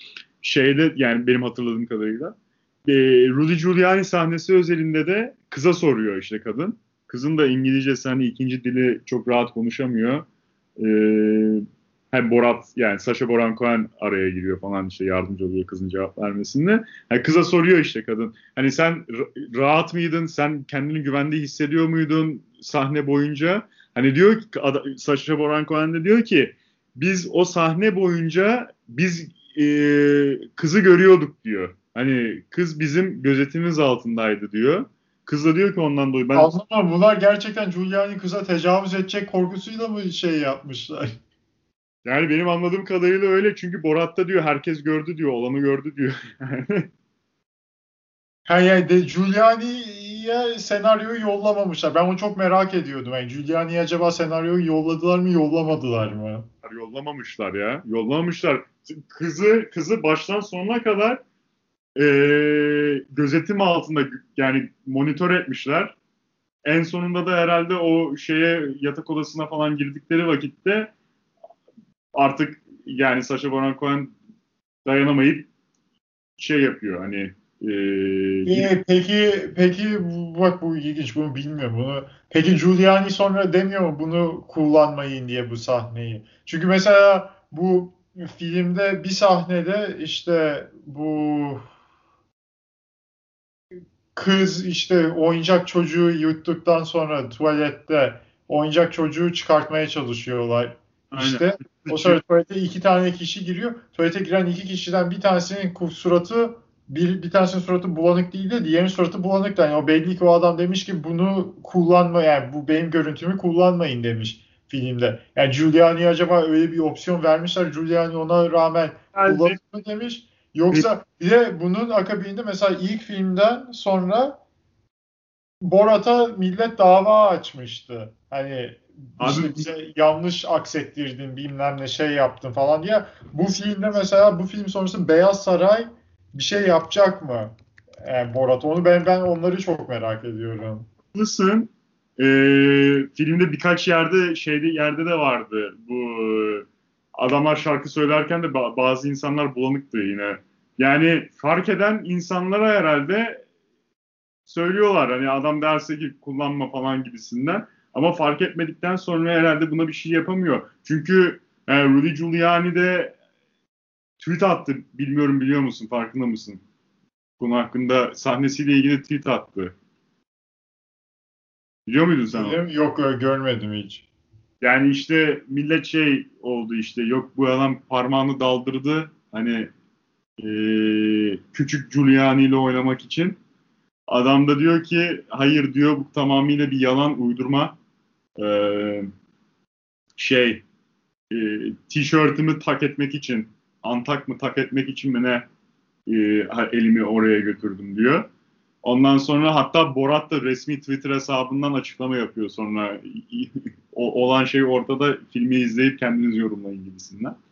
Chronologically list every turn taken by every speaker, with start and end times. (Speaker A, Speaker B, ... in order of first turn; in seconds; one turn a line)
Speaker A: 0.4-10.2
Speaker A: 10.8-36.5
Speaker B: 36.3-41.1
Speaker A: 42.0-46.9
Speaker B: 48.5-56.5
Speaker A: 56.6-61.2
Speaker A: 62.0-66.0
Speaker A: 66.6-70.9
Speaker A: 72.1-74.1
Speaker A: 74.8-75.5
Speaker A: 76.4-78.7
Speaker B: 78.4-91.7
Speaker B: 94.1-124.4
Speaker A: 101.1-102.2
Speaker A: 119.1-119.6
Speaker B: 125.6-140.9
Speaker A: 129.2-129.7
Speaker A: 141.1-153.4
Speaker A: 154.5-163.1
Speaker A: 164.2-166.6
Speaker A: 167.4-169.7
Speaker A: 171.9-172.6
Speaker B: 172.3-174.1
Speaker A: 174.6-179.7
Speaker A: 180.4-183.4
Speaker A: 184.1-187.7
Speaker A: 188.4-189.1
Speaker A: 190.2-190.6
Speaker A: 191.3-195.5
Speaker A: 196.1-198.3
Speaker A: 198.8-207.4